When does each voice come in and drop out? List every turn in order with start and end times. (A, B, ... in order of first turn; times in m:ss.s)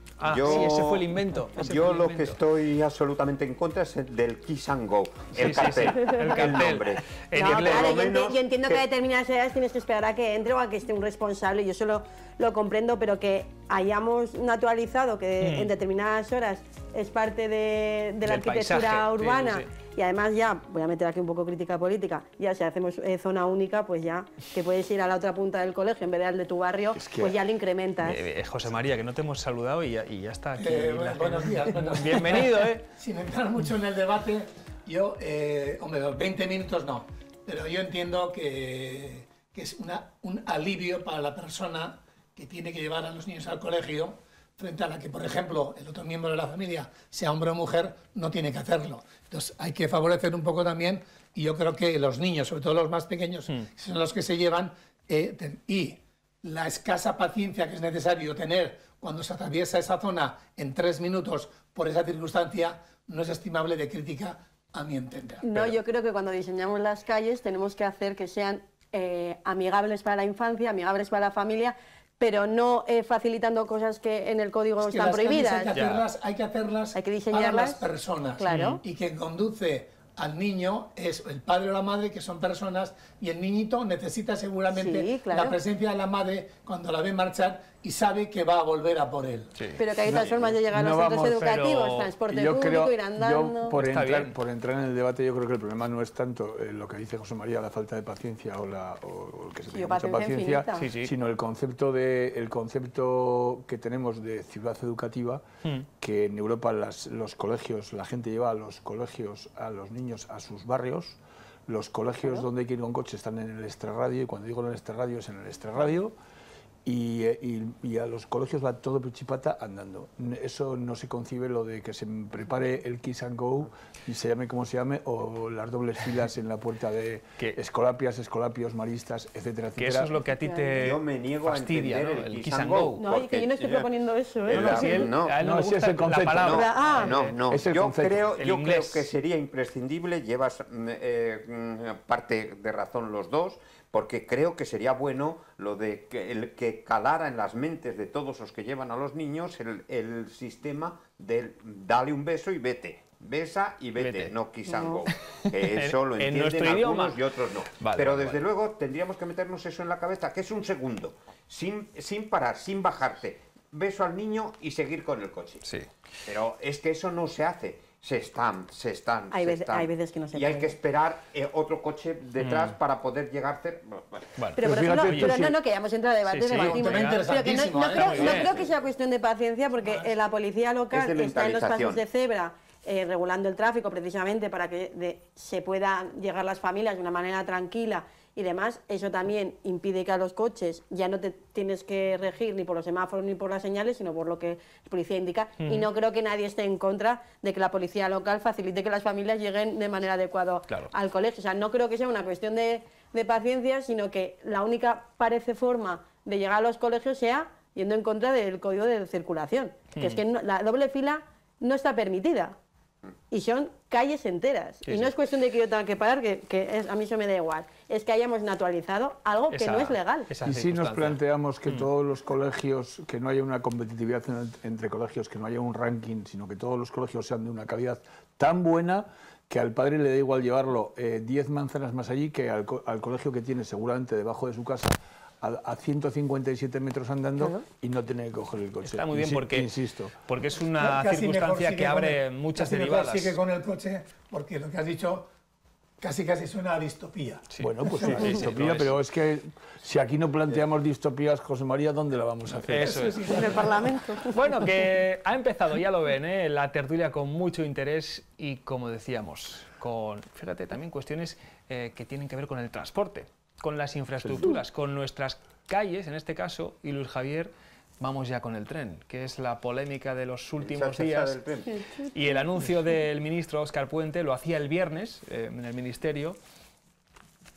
0:00.2-0:02.4 A
0:00.2-0:08.8 B
0:05.3-0:08.0 A
0:07.3-0:28.2 C
0:15.4-0:15.7 A
0:18.2-0:19.6 A
0:26.9-0:27.4 D
0:28.0-0:32.9 A
0:30.6-1:05.4 E
1:05.4-1:15.7 C
1:14.8-1:29.5 E
1:15.7-1:16.0 A
1:16.9-1:17.9 C
1:18.4-1:18.8 C
1:18.5-1:18.8 A
1:24.7-1:25.6 C
1:29.8-1:33.7 C
1:30.0-1:31.5 D
1:31.4-1:32.1 A
1:32.3-1:45.4 D
1:33.8-1:34.3 A
1:39.7-1:40.9 C
1:40.8-1:41.1 A
1:46.0-1:56.1 D
1:56.8-2:10.2 D
2:09.8-2:13.0 A
2:10.4-2:10.9 C
2:10.8-2:13.9 B
2:13.0-2:15.1 C
2:14.5-2:15.4 B
2:14.5-2:17.4 A
2:15.4-2:16.5 D
2:16.3-2:45.7 B
2:16.5-2:17.1 C
2:17.5-2:18.3 D
2:18.4-2:19.0 A
2:34.0-2:34.3 A
2:34.7-2:35.0 C
2:35.1-2:38.4 A
2:46.2-2:54.3 B
2:49.3-2:50.7 C
2:52.4-2:52.7 A
2:54.4-2:55.4 A
2:54.6-3:32.6 C
2:54.6-2:55.6 D
2:56.3-2:57.2 A
2:56.5-2:58.5 E
2:57.9-2:58.5 A
2:59.8-3:00.1 E
3:00.9-3:02.0 B
3:15.6-3:15.8 A
3:30.0-3:30.2 A
3:33.3-3:40.3 C
3:34.9-3:35.1 A
3:39.5-3:41.9 A
3:40.4-4:00.1 D
3:58.8-3:59.7 A
4:00.2-4:03.4 A
4:00.8-4:05.3 E
4:06.0-4:08.3 E
4:07.6-4:09.0 A
4:07.6-4:13.3 D
4:12.7-4:13.7 A
4:12.7-4:13.9 E
4:13.3-4:14.3 C
4:14.2-4:31.4 A
4:30.6-4:31.8 B
4:32.0-4:36.4 A